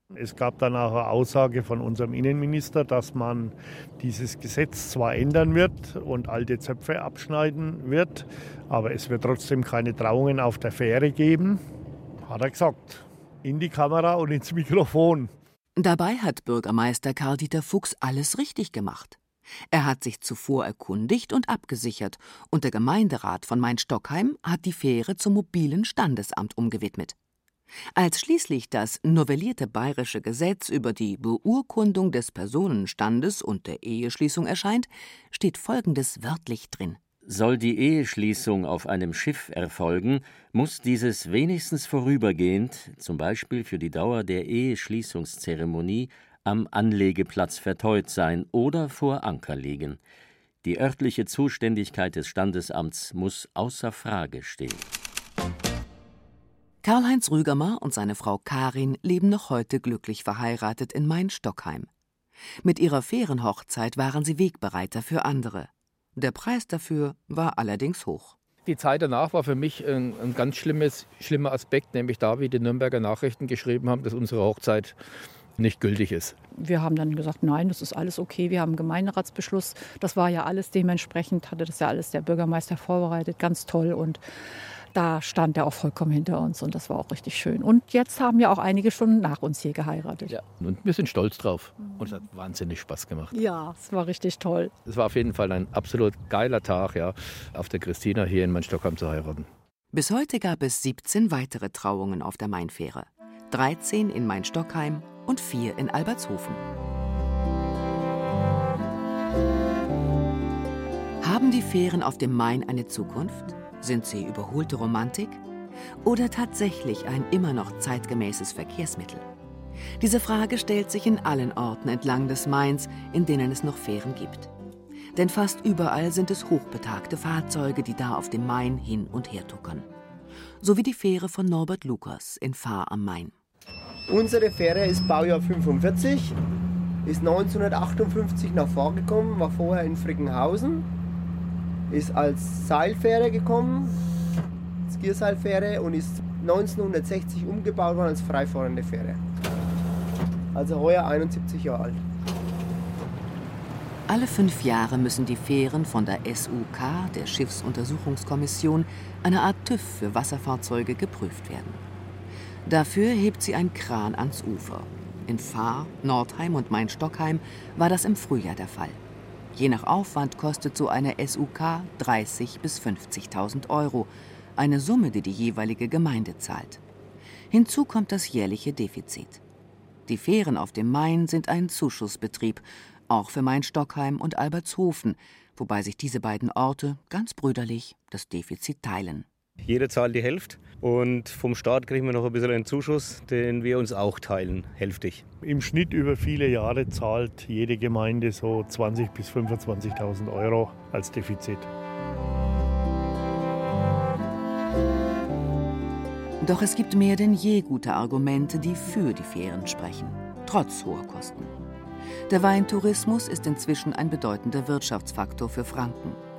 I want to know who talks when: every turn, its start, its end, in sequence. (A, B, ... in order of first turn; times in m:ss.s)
0:00.1-0:11.6 A
0:12.2-0:15.3 A
0:15.8-0:19.2 B
0:19.7-0:27.2 B
0:28.0-0:37.0 B
0:37.2-0:50.0 C
0:50.6-0:54.9 C
0:56.8-1:01.9 B
1:02.6-1:08.4 B
1:08.6-1:15.0 D
1:15.6-1:16.4 D
1:16.5-1:24.2 E
1:24.9-1:30.3 E
1:30.3-1:33.3 D
1:33.3-1:34.8 E
1:34.8-1:39.5 D
1:39.9-1:46.6 B
1:51.2-1:55.4 B
1:56.0-1:59.2 B
2:00.0-2:04.5 B
2:05.1-2:09.9 B
2:10.6-2:13.3 B
2:14.1-2:16.4 F
2:17.0-2:20.9 F
2:21.9-2:24.0 F
2:24.9-2:29.2 F
2:30.5-2:32.0 F
2:34.1-2:41.8 B
2:42.6-2:49.0 B
2:49.5-2:56.8 B
2:57.5-2:59.4 B
3:00.1-3:09.2 B
3:09.6-3:15.2 G
3:15.4-3:21.7 A
3:26.4-3:31.5 B
3:32.3-3:36.2 B